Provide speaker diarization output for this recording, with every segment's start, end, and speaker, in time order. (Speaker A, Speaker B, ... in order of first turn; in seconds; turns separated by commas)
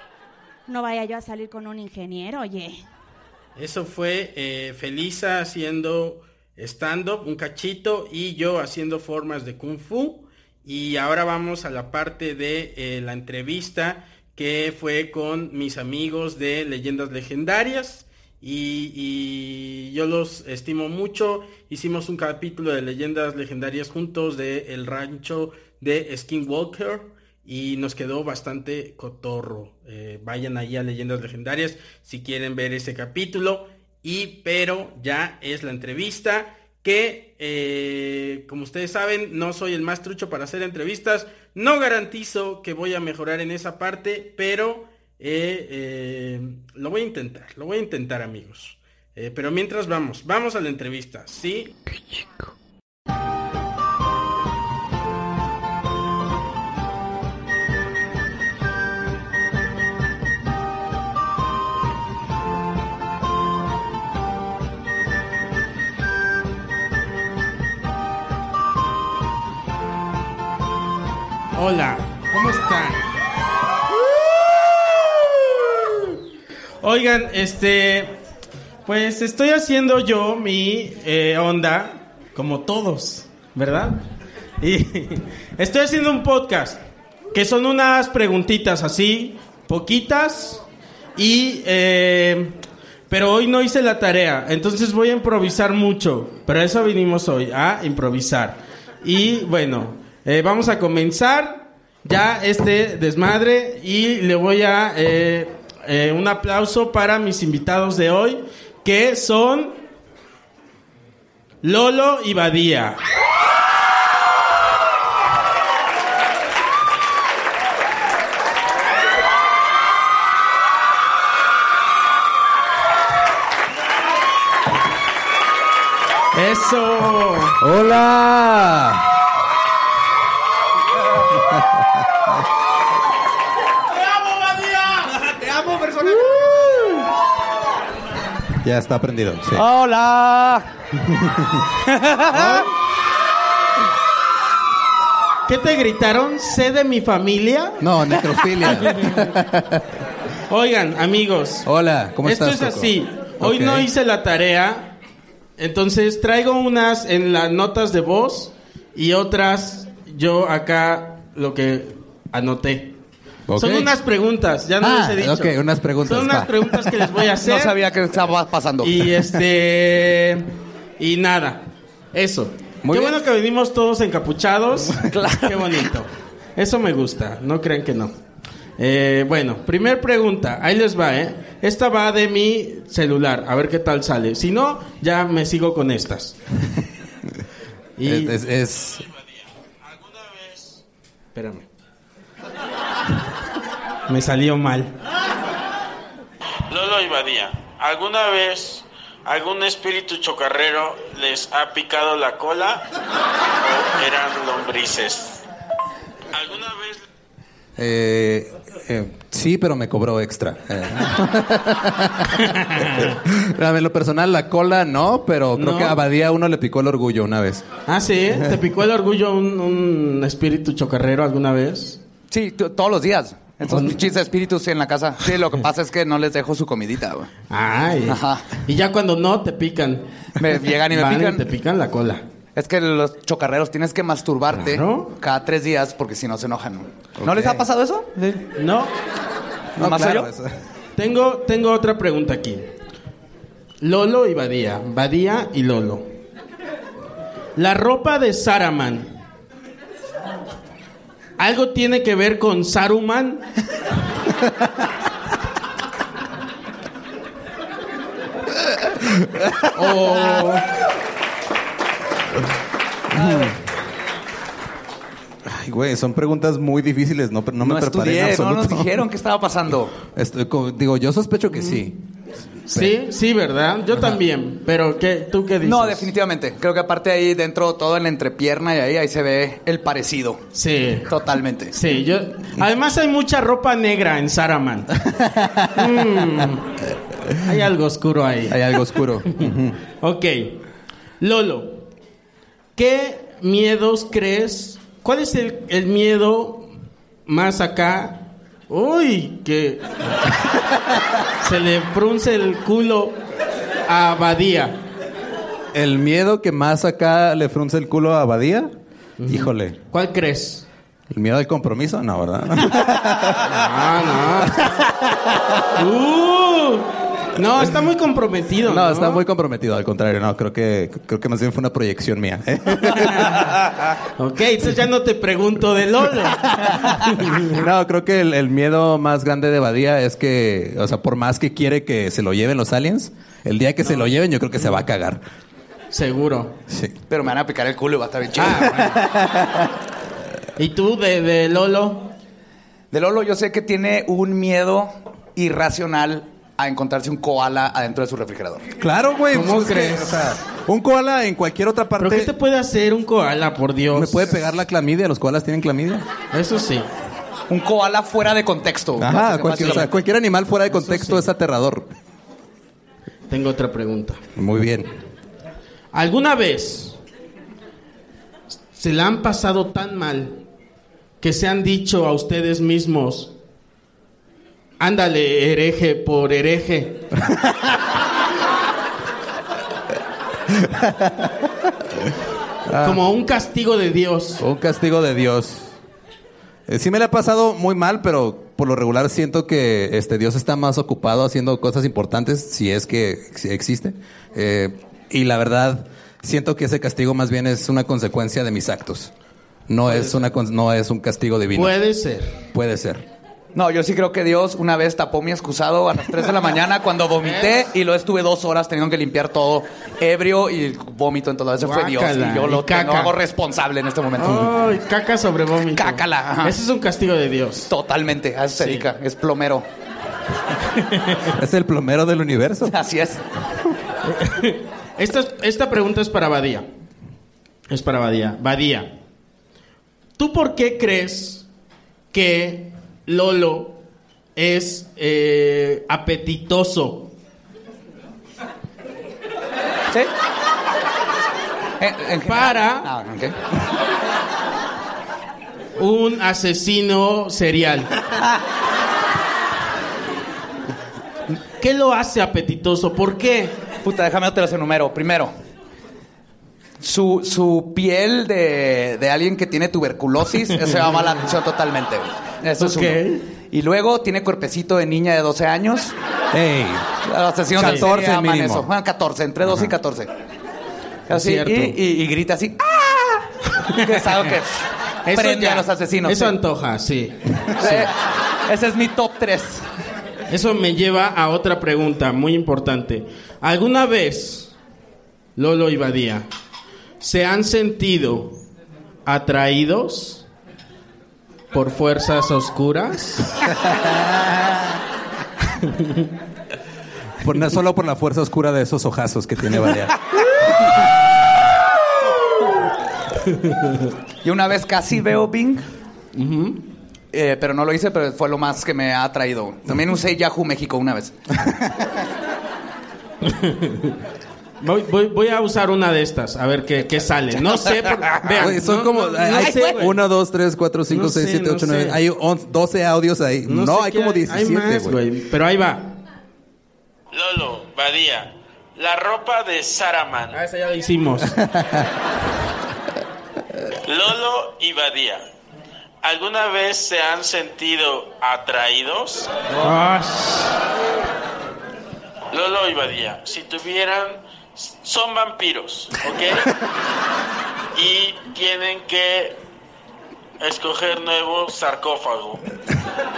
Speaker A: 0.7-2.9, Speaker B: 3.6-51.8, Speaker B: 71.5-73.1, Speaker B: 76.8-78.2, Speaker B: 78.9-84.1, Speaker B: 84.6-86.8, Speaker B: 87.3-90.6, Speaker B: 91.2-92.6, Speaker B: 93.1-109.8, Speaker B: 111.6-113.0, Speaker B: 126.3-127.6, Speaker C: 127.6-129.1, Speaker C: 131.4-131.8, Speaker D: 135.8-136.7, Speaker C: 138.6-139.6, Speaker D: 139.5-140.7, Speaker C: 141.0-141.6, Speaker D: 141.9-142.7, Speaker B: 142.3-142.7, Speaker B: 145.5-147.8, Speaker C: 147.8-149.8, Speaker B: 148.7-149.1, Speaker B: 150.5-151.7, Speaker C: 151.7-153.9, Speaker B: 152.2-155.0, Speaker B: 155.6-163.0, Speaker C: 163.5-163.9, Speaker B: 163.6-167.8, Speaker C: 164.8-166.5, Speaker D: 167.4-169.0, Speaker B: 168.8-178.2, Speaker C: 172.8-173.2, Speaker D: 175.0-175.8, Speaker B: 178.8-186.4, Speaker B: 188.0-188.3, Speaker C: 188.1-189.1, Speaker E: 189.8-190.8, Speaker B: 191.3-191.7, Speaker B: 194.1-194.9, Speaker E: 196.7-202.9, Speaker E: 203.6-205.4, Speaker E: 206.3-207.0, Speaker C: 207.8-217.6, Speaker B: 212.4-213.1, Speaker B: 215.6-216.0, Speaker B: 217.9-222.0, Speaker D: 222.3-227.3, Speaker B: 227.5-232.2, Speaker D: 228.1-228.5, Speaker D: 230.4-231.5, Speaker D: 232.6-238.4, Speaker B: 234.5-235.1, Speaker B: 238.6-238.9, Speaker C: 239.8-240.5, Speaker D: 239.8-240.3, Speaker B: 241.0-242.7, Speaker B: 243.8-246.1, Speaker B: 247.6-249.1, Speaker B: 251.4-253.5, Speaker C: 259.0-259.7, Speaker B: 259.7-260.7, Speaker C: 263.1-263.6, Speaker C: 265.5-268.9, Speaker D: 267.6-270.0, Speaker C: 270.1-272.0, Speaker B: 272.7-276.1, Speaker D: 275.6-280.4, Speaker B: 280.6-285.0, Speaker D: 281.1-281.7, Speaker C: 285.2-285.7, Speaker B: 285.7-286.8, Speaker B: 287.4-290.6, Speaker C: 288.5-289.8, Speaker B: 291.2-291.9, Speaker B: 292.8-296.7, Speaker B: 297.3-300.3, Speaker B: 301.4-303.2, Speaker B: 303.9-304.8, Speaker C: 305.7-308.7, Speaker B: 309.2-310.7, Speaker C: 309.3-309.8, Speaker C: 311.1-313.6, Speaker B: 313.5-314.8, Speaker C: 314.5-315.4, Speaker B: 315.8-319.2, Speaker C: 318.7-323.8, Speaker B: 322.8-323.5, Speaker B: 324.2-327.6, Speaker C: 326.5-335.2, Speaker B: 333.8-334.1, Speaker B: 335.9-336.6, Speaker C: 336.7-336.9, Speaker D: 337.1-339.0, Speaker B: 338.4-338.9, Speaker C: 338.9-339.5, Speaker B: 340.6-342.1, Speaker D: 342.9-348.7, Speaker C: 348.8-352.3, Speaker B: 349.3-350.3, Speaker B: 352.0-354.5, Speaker C: 353.9-356.1, Speaker B: 356.3-356.9, Speaker D: 357.5-359.9, Speaker C: 359.0-361.9, Speaker B: 359.6-359.9, Speaker B: 360.7-361.3, Speaker B: 363.3-364.2, Speaker C: 364.4-364.9, Speaker B: 365.9-367.0, Speaker B: 368.8-370.4, Speaker B: 371.2-373.4, Speaker B: 374.8-377.1, Speaker C: 377.2-377.7, Speaker C: 380.5-381.5, Speaker C: 382.7-383.0, Speaker B: 382.8-384.4, Speaker C: 384.4-385.7, Speaker C: 386.7-399.1, Speaker C: 399.7-401.8, Speaker B: 399.9-400.3, Speaker B: 401.5-402.4, Speaker C: 402.5-403.1, Speaker D: 403.6-414.5, Speaker B: 407.2-407.6, Speaker B: 411.6-413.1, Speaker B: 414.2-417.7, Speaker D: 415.7-416.6, Speaker D: 417.7-419.7, Speaker B: 418.6-418.9, Speaker B: 420.8-421.3, Speaker C: 421.4-422.8, Speaker D: 422.6-423.2, Speaker B: 424.1-426.7, Speaker B: 427.7-429.0, Speaker B: 430.2-431.5, Speaker B: 432.1-433.8, Speaker B: 434.4-437.1, Speaker D: 441.8-443.4, Speaker B: 442.3-442.9, Speaker B: 445.8-447.9, Speaker B: 451.6-453.6, Speaker D: 453.8-455.3, Speaker D: 456.8-465.9, Speaker B: 462.6-463.2, Speaker C: 466.3-466.9, Speaker D: 467.0-470.1, Speaker C: 467.6-468.6, Speaker B: 467.6-467.9, Speaker D: 471.1-473.2, Speaker B: 471.1-471.8, Speaker B: 473.7-474.4, Speaker D: 473.7-476.4, Speaker B: 475.1-477.9, Speaker D: 477.6-479.7, Speaker B: 480.3-484.5, Speaker B: 485.4-486.3, Speaker B: 487.0-488.5, Speaker B: 489.1-490.3, Speaker B: 491.5-493.5, Speaker B: 495.7-496.1, Speaker C: 497.2-500.0, Speaker D: 504.2-505.7, Speaker B: 506.1-506.7, Speaker D: 507.1-511.2, Speaker B: 513.2-514.0, Speaker B: 514.6-520.0, Speaker D: 517.3-518.6, Speaker C: 518.4-525.0, Speaker D: 519.4-519.8, Speaker B: 520.9-522.0, Speaker B: 523.5-526.0, Speaker E: 527.1-530.4, Speaker B: 530.3-531.4, Speaker C: 531.5-531.8, Speaker E: 533.9-535.2, Speaker E: 536.0-539.3, Speaker B: 539.6-540.5, Speaker E: 542.3-546.5, Speaker E: 547.8-549.4, Speaker E: 550.4-552.4